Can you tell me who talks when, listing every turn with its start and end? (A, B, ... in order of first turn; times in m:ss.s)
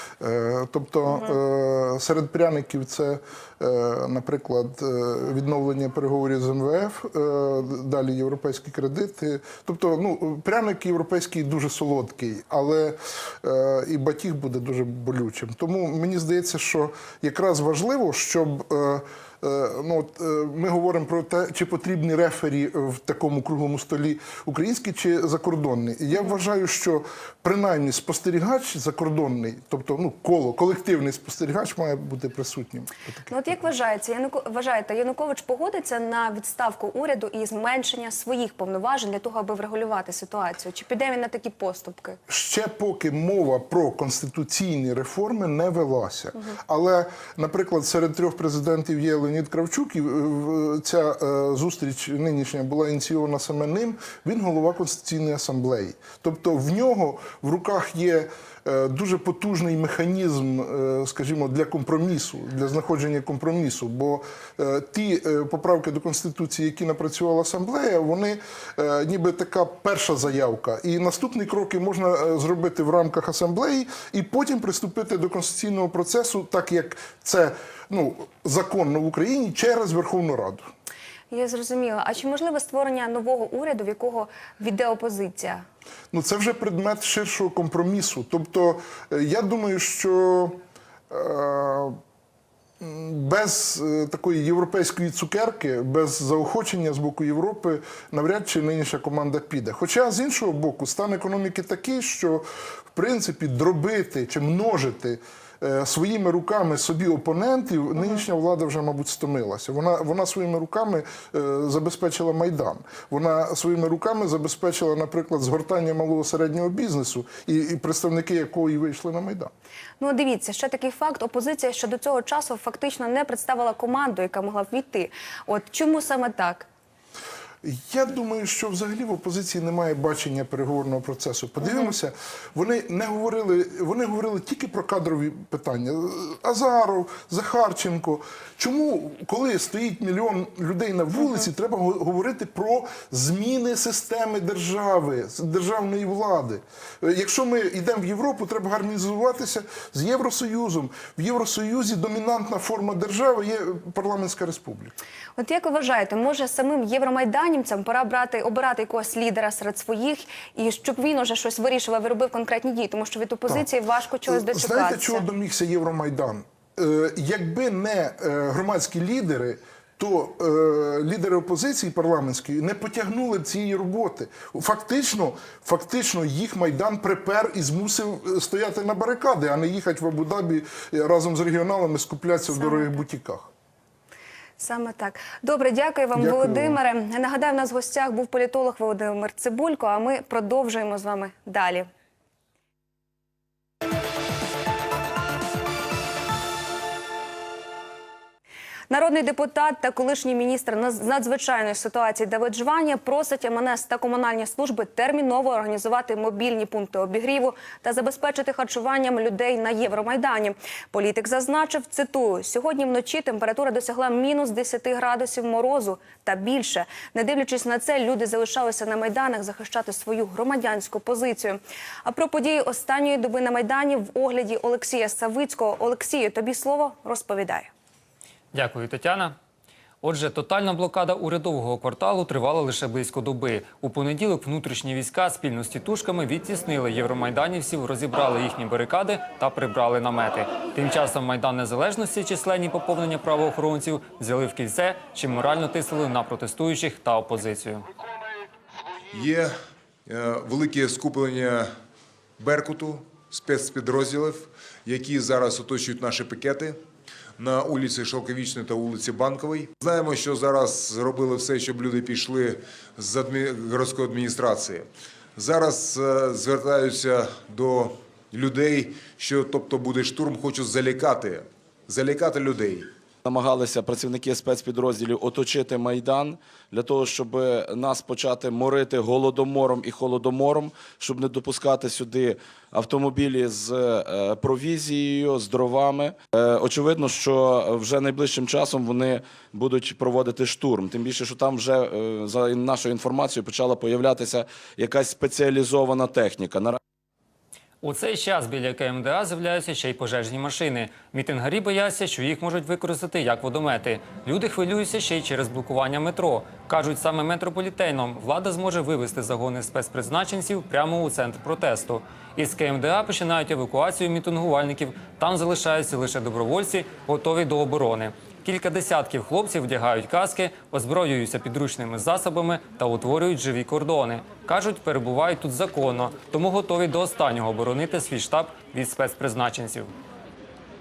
0:00.2-0:33.4 A
0:01.1-0:01.4 B
0:33.3-0:42.2 B
0:42.3-1:20.7 A
1:21.3-1:25.6 B
1:26.1-1:32.0 A
1:32.8-1:59.5 A
2:00.0-2:06.7 B
2:07.6-2:34.9 A
2:11.6-2:11.9 B
2:21.2-2:21.5 B
2:35.4-2:45.2 B
2:44.3-3:03.5 A
3:02.5-3:02.9 B
3:04.6-3:11.9 B
3:06.1-3:06.8 A
3:18.9-3:47.7 B
3:48.5-3:49.4 C
3:50.0-4:07.8 C
4:09.1-4:11.8 D
4:12.4-4:16.8 D
4:17.4-4:32.9 D
4:33.2-4:56.8 E
4:57.8-5:29.9 C